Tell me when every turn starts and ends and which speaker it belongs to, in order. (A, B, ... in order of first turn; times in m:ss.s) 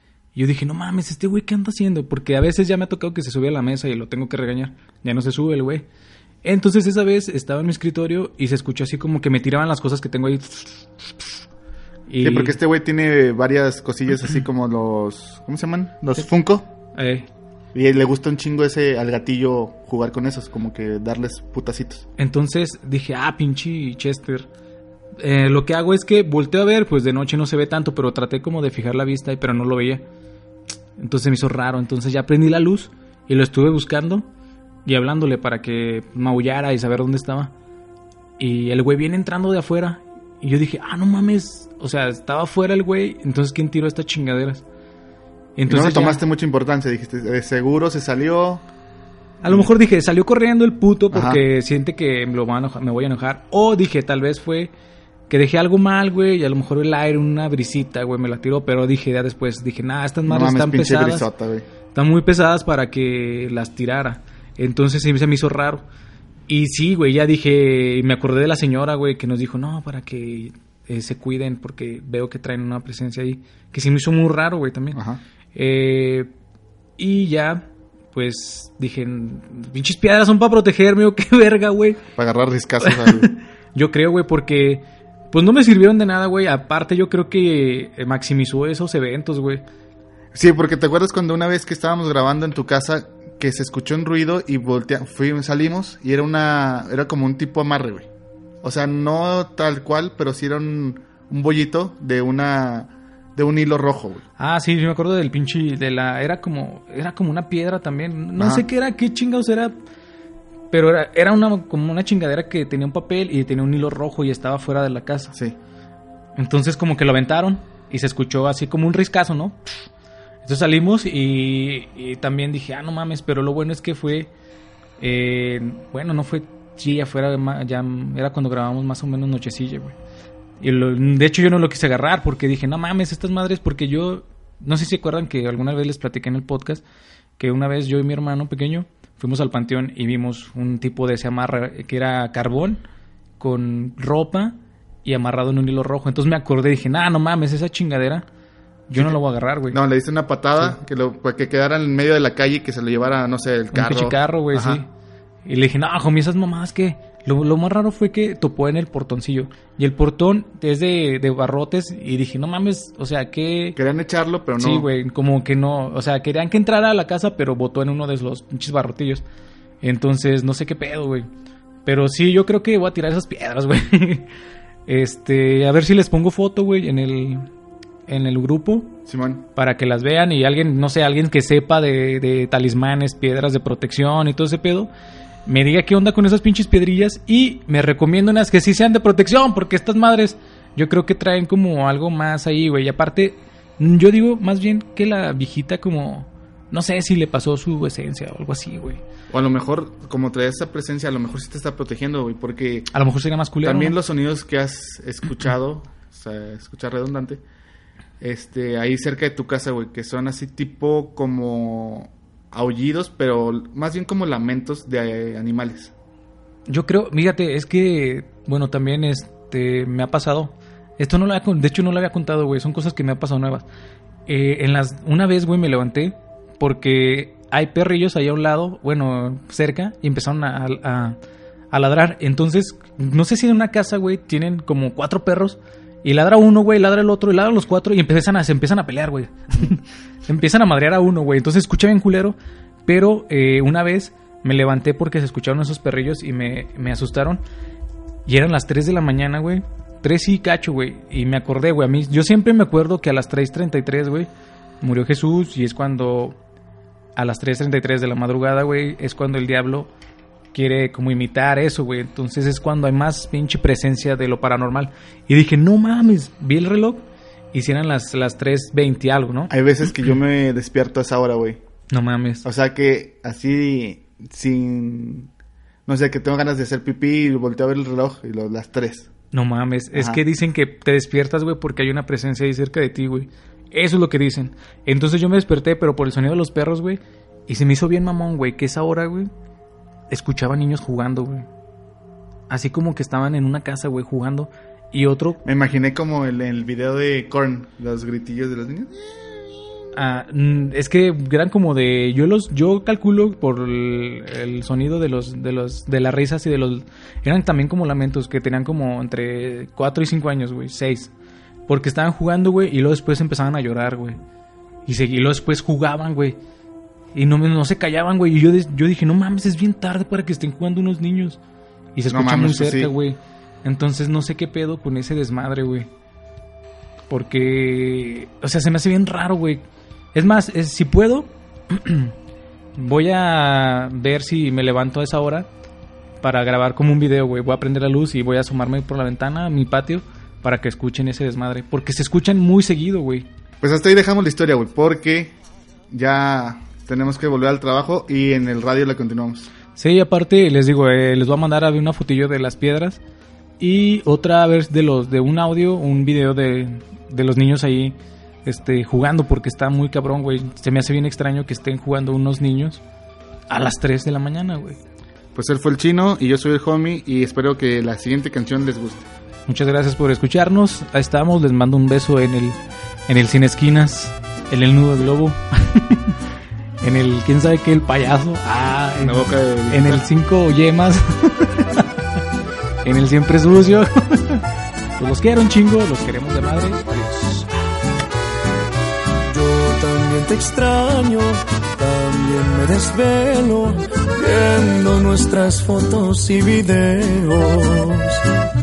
0:00.4-0:05.9 A
0:06.4-0:11.1 A
0:12.1-0:12.6 A
0:12.2-0:16.7 B
0:17.0-0:17.3 A
0:17.7-0:22.1 B
0:22.2-0:24.5 A
0:25.2-0:30.0 A
0:31.0-0:34.3 A
0:34.9-0:37.5 A
0:38.4-0:44.6 A
0:45.6-0:46.2 A
0:45.7-0:48.6 B
0:49.4-0:54.7 A
0:49.4-0:49.7 B
0:51.1-0:51.4 B
0:55.3-1:01.3 A
1:00.3-1:01.7 B
1:01.9-1:05.8 A
1:06.5-1:15.0 A
1:14.9-1:15.2 B
1:15.6-1:16.3 A
1:17.0-1:22.0 A
1:22.2-1:23.3 B
1:22.8-1:29.6 A
1:30.3-1:38.1 B
1:38.6-1:44.2 B
1:44.4-1:49.7 A
1:48.4-1:48.7 B
1:50.7-1:55.4 A
1:56.4-1:59.6 A
2:00.4-2:04.3 A
2:05.0-2:10.0 A
2:10.6-2:16.8 A
2:17.4-2:22.8 A
2:23.4-2:28.3 A
2:28.9-2:29.8 A
2:29.7-2:34.8 B
2:33.7-2:34.9 A
2:35.4-2:43.8 A
2:43.8-2:44.9 B
2:44.6-2:49.2 A
2:49.8-2:51.3 A
2:51.8-2:54.3 A
2:54.9-2:57.5 A
2:58.1-2:59.0 A
2:59.1-2:59.4 B
2:59.6-3:04.9 A
3:05.5-3:19.0 A
3:19.3-3:22.9 B
3:22.9-3:24.0 A
3:23.6-3:27.4 B
3:28.2-3:35.9 B
3:36.7-3:43.7 A
3:44.3-3:51.2 A
3:51.7-4:07.4 A
4:08.3-4:14.3 A
4:14.8-4:16.4 A
4:17.2-4:19.9 A
4:20.5-4:29.5 A
4:29.5-4:31.6 B
4:31.9-4:32.4 A
4:32.4-4:35.3 B
4:35.9-4:39.1 B
4:39.3-4:49.3 A
4:39.9-4:40.2 B
4:50.1-4:51.5 A
4:52.5-4:55.4 A
4:55.4-4:59.8 B
5:00.0-5:11.1 A
5:11.7-5:14.2 A
5:14.9-5:16.4 A
5:17.1-5:21.4 A
5:22.0-5:25.9 A
5:22.1-5:22.9 B
5:27.1-5:32.1 A
5:32.8-5:35.5 A
5:36.2-5:43.3 A
5:43.6-5:45.3 B
5:45.9-5:49.5 B
5:49.8-5:53.0 A
5:53.6-6:02.8 A
6:03.5-6:04.8 A
6:05.4-6:09.1 B
6:09.5-6:12.6 A
6:13.1-6:16.2 A
6:16.8-6:22.0 A
6:19.0-6:20.0 B
6:22.8-6:24.4 A
6:25.0-6:27.5 A
6:29.3-6:38.2 C